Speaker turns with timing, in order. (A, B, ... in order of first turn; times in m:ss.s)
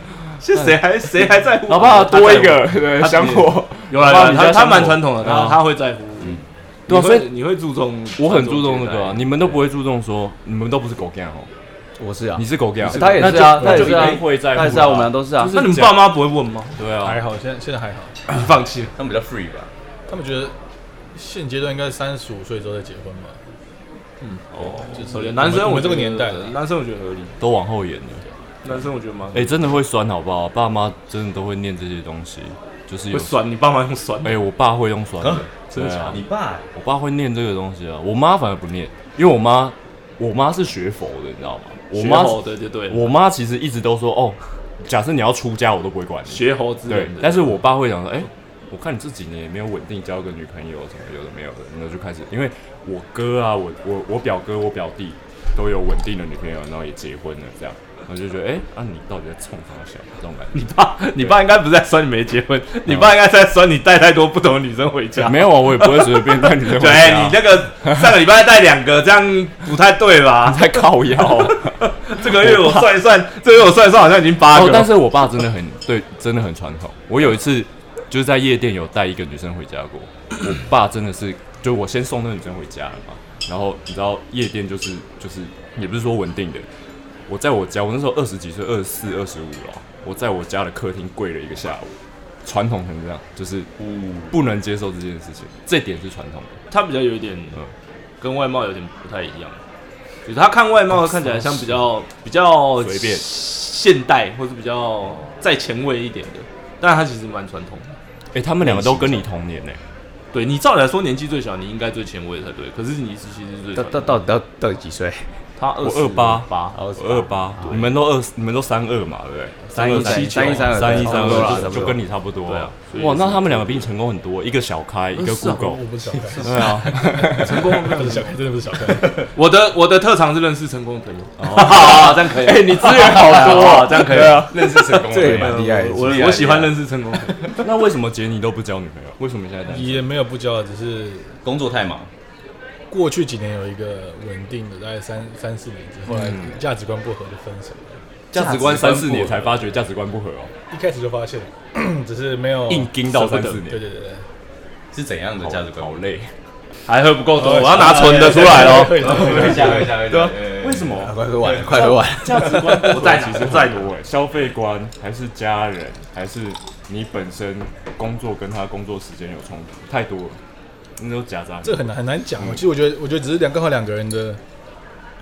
0:00.4-0:09.6 A
0:00.5-0:05.7 B
0:06.9-0:07.3 B
0:08.2-0:11.5 B
0:12.0-0:15.6 C
0:12.4-0:16.2 B
0:13.0-0:14.0 A
0:15.5-0:16.7 A
0:16.8-0:17.2 B
0:17.0-0:18.2 D
0:18.3-0:18.9 A
0:19.0-0:19.7 E
0:20.1-0:20.6 D
0:21.1-0:23.4 D
0:24.2-0:27.4 A
0:24.6-0:25.1 B
0:24.9-0:26.6 D
0:27.4-0:28.8 B
0:28.6-0:29.5 A
0:29.3-0:33.4 B
0:33.1-0:34.4 A
0:34.2-0:36.2 B
0:35.2-0:35.5 E
0:35.7-0:36.2 A
0:36.1-0:36.7 E
0:36.7-1:00.6 B
0:41.9-0:43.1 A
0:46.3-0:47.6 A
1:00.5-1:14.9 A
1:02.9-1:03.1 B
1:05.2-1:07.9 B
1:10.4-1:12.9 B
1:14.4-1:26.6 B
1:27.3-1:31.9 B
1:32.4-1:33.7 B
1:33.8-1:34.3 E
1:34.3-1:36.6 B
1:36.7-1:37.6 A
1:38.2-1:39.6 A
1:40.2-1:48.0 A
1:41.2-1:41.7 B
1:42.8-1:43.2 B
1:48.3-1:49.8 B
1:48.7-1:49.2 E
1:50.3-1:54.2 A
1:53.7-1:55.4 C
1:55.6-1:56.9 A
1:55.8-2:05.8 B
1:56.8-1:57.8 C
1:57.6-1:57.9 A
1:59.7-2:02.0 C
1:59.7-2:03.9 A
2:05.2-2:08.4 A
2:05.6-2:09.2 D
2:06.4-2:08.0 B
2:09.3-2:17.6 A
2:11.4-2:15.5 B
2:12.9-2:13.4 E
2:14.7-2:16.7 E
2:15.1-2:16.7 C
2:17.6-2:20.1 B
2:19.7-2:21.4 D
2:21.4-2:22.1 E
2:22.9-2:28.0 D
2:26.1-2:26.6 B
2:28.3-2:30.5 B
2:28.3-2:29.5 E
2:30.7-2:32.9 D
2:32.7-2:33.8 B
2:33.1-2:33.6 A
2:33.6-2:34.2 D
2:34.9-2:36.0 E
2:35.4-2:36.3 B
2:36.9-2:40.4 A
2:37.4-2:39.9 D
2:37.7-2:41.7 E
2:40.6-2:50.4 B
2:40.9-2:43.2 C
2:42.7-2:43.9 A
2:51.0-2:52.6 B
2:51.6-2:54.4 D